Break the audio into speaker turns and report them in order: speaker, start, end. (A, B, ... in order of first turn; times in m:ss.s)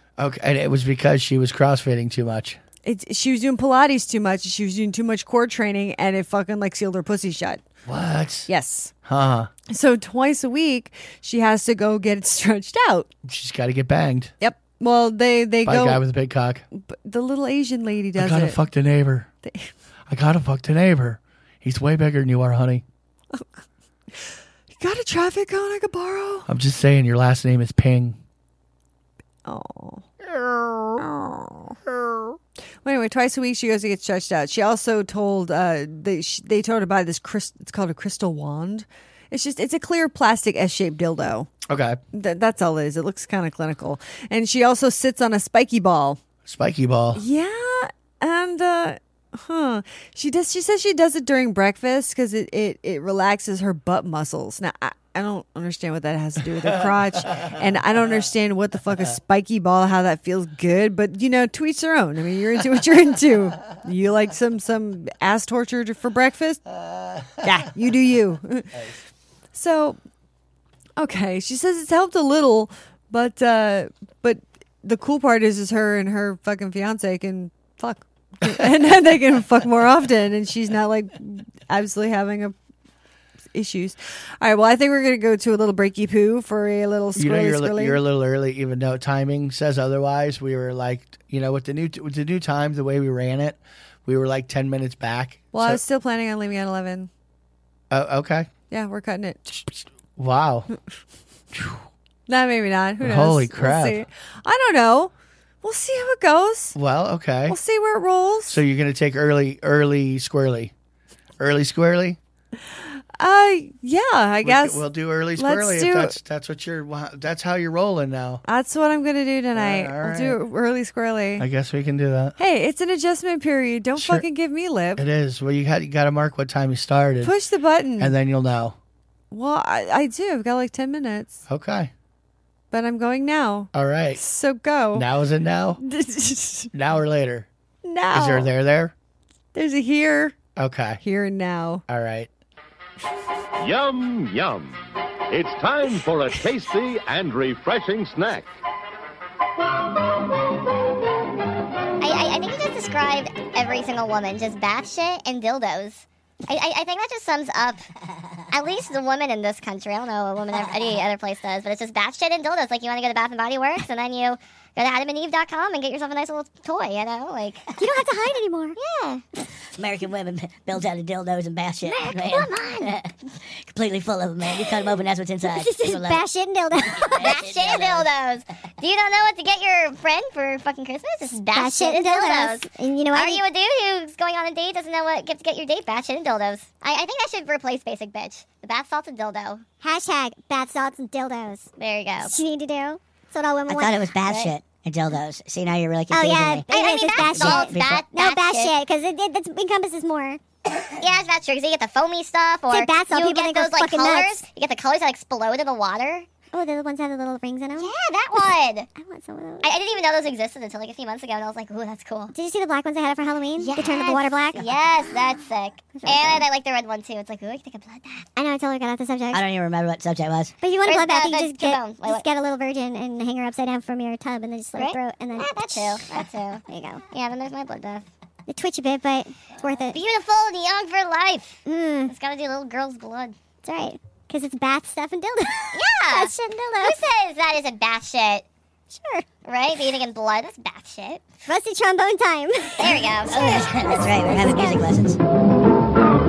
0:00.2-0:02.6 A
0:02.8-0:07.6 B
0:07.8-0:08.5 A
0:08.5-0:08.9 B
0:09.0-0:09.5 A
0:09.7-0:13.1 B
0:13.2-0:14.3 A
0:14.4-0:16.0 B
0:15.6-0:16.6 A
0:16.7-0:18.6 B
0:18.2-0:19.3 A
0:19.4-0:19.7 B
0:20.1-0:22.8 A
0:24.1-0:26.5 B
0:26.5-0:28.2 A
0:29.4-0:30.1 B
0:30.3-0:30.9 A
0:31.0-0:31.8 B
0:31.9-0:32.3 A
0:32.8-0:41.5 B
0:41.7-0:42.0 A
0:42.1-0:46.2 B
0:46.4-0:47.2 A
0:47.1-1:06.6 B
0:57.2-0:57.6 A
1:06.7-1:07.6 A
1:07.4-1:08.8 B
1:09.5-1:10.0 B
1:11.0-1:22.5 B
1:23.5-1:28.0 B
1:27.1-1:35.8 A
1:35.5-1:37.1 B
1:37.9-1:38.5 A
1:38.7-1:39.6 B
1:39.7-1:40.7 A
1:41.5-1:41.8 A
1:42.3-1:46.8 B
1:43.0-1:44.0 A
1:46.7-1:47.6 A
1:47.5-1:48.6 B
1:48.5-1:50.7 A
1:51.4-1:52.2 A
1:52.7-1:54.8 B
1:54.4-1:58.4 A
1:55.4-1:56.2 B
1:58.4-2:01.4 B
1:59.5-2:00.4 A
2:01.4-2:02.4 A
2:02.4-2:05.0 B
2:04.0-2:04.2 A
2:05.0-2:07.3 A
2:07.2-2:08.1 B
2:08.0-2:08.8 A
2:09.3-2:11.4 B
2:11.5-2:11.9 A
2:12.7-2:15.1 B
2:13.7-2:14.2 A
2:14.9-2:15.8 A
2:15.8-2:16.7 B
2:16.7-2:17.5 A
2:17.8-2:18.5 B
2:18.1-2:18.9 A
2:19.5-2:20.4 B
2:20.6-2:21.0 A
2:21.0-2:21.8 B
2:21.9-2:22.3 A
2:23.6-2:24.8 C
2:25.3-2:28.5 C
2:32.0-2:37.9 D
2:38.5-2:47.6 D
2:47.8-2:48.8 E
2:48.8-2:49.2 D
2:49.8-2:53.1 F
2:51.9-2:52.9 E
2:52.2-2:52.6 D
2:53.6-2:56.2 F
2:55.5-2:57.3 E
2:57.1-2:58.1 F
2:57.2-3:09.6 D
3:01.5-3:03.4 E
3:09.8-3:11.7 E
3:11.8-3:12.4 D
3:12.2-3:14.0 E
3:13.7-3:16.7 F
3:14.2-3:14.5 D
3:16.1-3:20.4 E
3:16.6-3:18.8 D
3:17.3-3:18.0 F
3:20.8-3:26.3 D
3:22.7-3:24.4 E
3:26.5-3:27.9 E
3:27.8-3:28.9 D
3:28.9-3:29.7 E
3:29.6-3:32.3 D
3:32.3-3:34.7 E
3:33.6-3:38.2 D
3:35.9-3:36.4 E
3:38.4-3:39.4 E
3:39.3-3:40.5 F
3:40.6-3:47.0 E
3:40.8-3:42.2 D
3:44.7-3:48.1 D
3:48.5-3:50.0 E
3:49.9-3:53.4 D
3:51.6-3:52.1 E
3:53.6-3:57.0 E
3:55.7-3:58.4 D
3:58.9-3:59.2 E
3:59.4-4:01.3 D
4:01.5-4:04.9 E
4:02.8-4:03.7 D
4:03.3-4:05.2 F